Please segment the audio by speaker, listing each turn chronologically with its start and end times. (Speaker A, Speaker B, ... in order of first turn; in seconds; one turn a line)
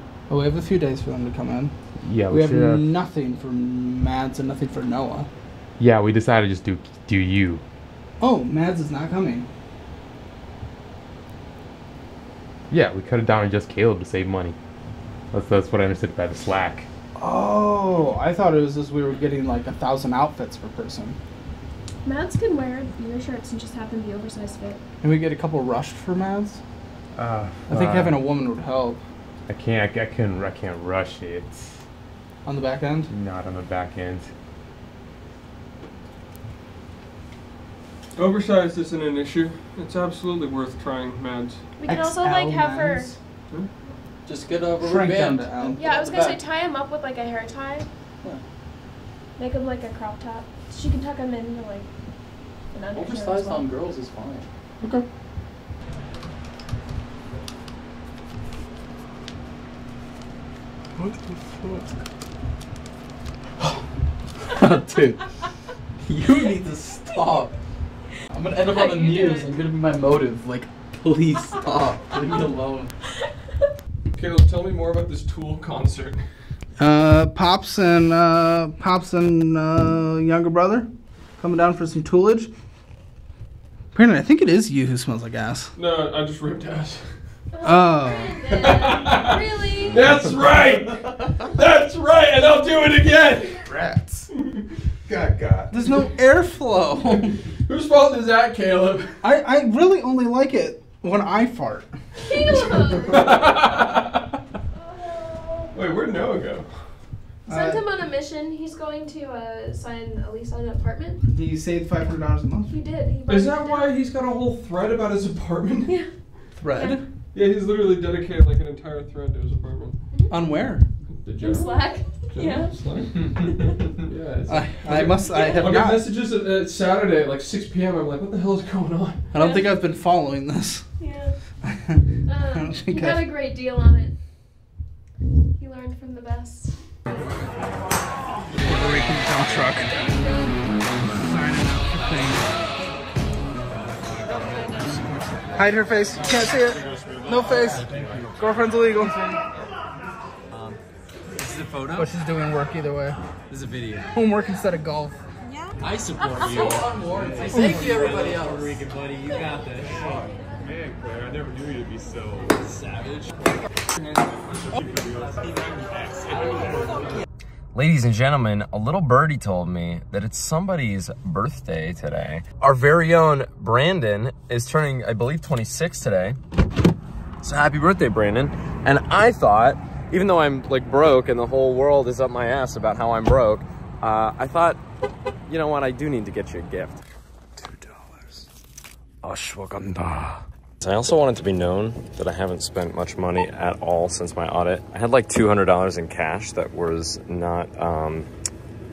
Speaker A: 0.3-5.3
Speaker B: 2.0-2.9
Speaker B: 5.8-7.6
Speaker A: 8.2-9.5
Speaker B: 12.7-14.6
Speaker B: 15.3-16.9
Speaker A: 17.2-21.2
Speaker C: 22.0-24.8
Speaker A: 25.0-26.6
Speaker B: 27.1-28.2
Speaker A: 27.7-29.0
Speaker B: 29.5-31.8
Speaker A: 32.4-33.1
Speaker B: 33.1-34.3
Speaker D: 38.1-41.6
Speaker C: 41.8-43.1
Speaker A: 41.9-43.2
Speaker E: 44.2-46.4
Speaker A: 44.8-45.8
Speaker C: 45.8-47.9
Speaker C: 49.4-51.9
Speaker C: 52.7-53.7
Speaker E: 52.9-54.5
Speaker E: 64.5-65.2
Speaker E: 66.0-67.5
Speaker E: 68.3-72.9
Speaker C: 68.7-69.5
Speaker D: 74.1-76.3
Speaker A: 76.8-82.5
Speaker A: 83.9-85.7
Speaker D: 85.8-87.1
Speaker C: 87.5-90.1
Speaker A: 87.6-88.5
Speaker D: 88.5-93.7
Speaker B: 93.7-94.2
Speaker B: 95.1-95.7
Speaker A: 95.7-97.3
Speaker D: 97.7-99.2
Speaker A: 99.2-101.9
Speaker C: 102.3-103.6
Speaker D: 102.3-104.3
Speaker C: 104.8-105.7
Speaker D: 105.7-106.8
Speaker A: 107.5-107.9
Speaker C: 107.5-111.2
Speaker A: 111.3-112.7
Speaker C: 112.7-114.0
Speaker D: 113.3-116.0
Speaker A: 116.6-117.0
Speaker C: 116.7-117.0
Speaker D: 117.3-120.0
Speaker A: 120.3-120.8
Speaker D: 121.2-121.7
Speaker F: 121.2-121.6
Speaker C: 121.4-122.8
Speaker D: 122.3-129.3
Speaker C: 123.4-123.8
Speaker A: 124.5-126.1
Speaker C: 125.3-125.8
Speaker A: 129.3-130.9
Speaker C: 129.3-129.8
Speaker C: 131.0-131.3
Speaker A: 131.6-133.3
Speaker C: 132.2-134.1
Speaker C: 135.6-137.3
Speaker A: 138.6-139.9
Speaker C: 139.8-140.7
Speaker A: 141.1-142.5
Speaker C: 144.4-144.9
Speaker A: 145.5-149.4
Speaker D: 146.3-147.9
Speaker F: 147.7-148.4
Speaker F: 150.5-150.8
Speaker F: 151.3-152.1
Speaker A: 151.9-153.2
Speaker F: 153.5-154.1
Speaker A: 154.1-155.2
Speaker F: 155.8-160.1
Speaker E: 155.9-158.8
Speaker C: 156.2-156.7
Speaker C: 159.3-160.3
Speaker B: 160.6-162.5
Speaker F: 162.6-163.3
Speaker D: 163.9-165.6
Speaker F: 167.7-176.4
Speaker F: 177.4-184.8
Speaker F: 185.5-187.0
Speaker F: 189.2-198.3